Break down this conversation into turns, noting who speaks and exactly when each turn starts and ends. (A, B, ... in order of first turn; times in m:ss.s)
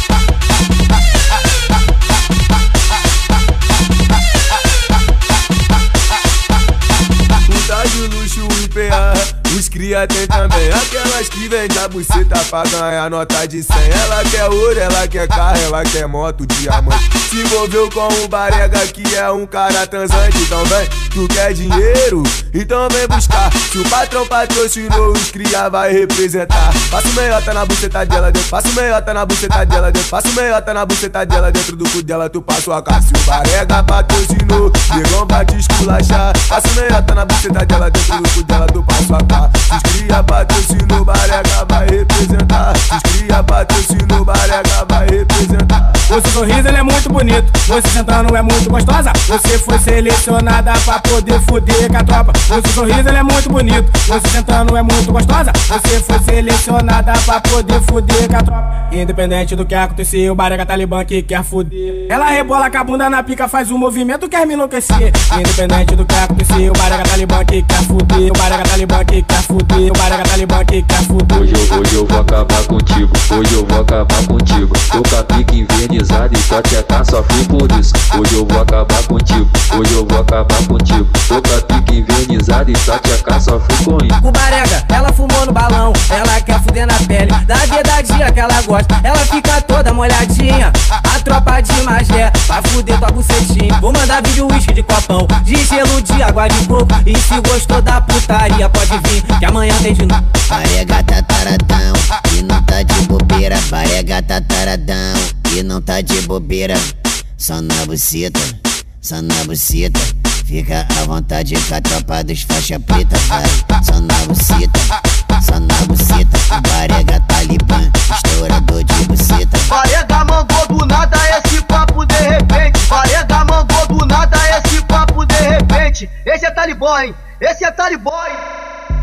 0:07.5-0:46.0 A
0:46.1-1:11.5 B
1:11.3-1:24.2 C
1:24.2-1:40.2 D
1:40.5-1:59.7 E
1:59.7-2:08.4 F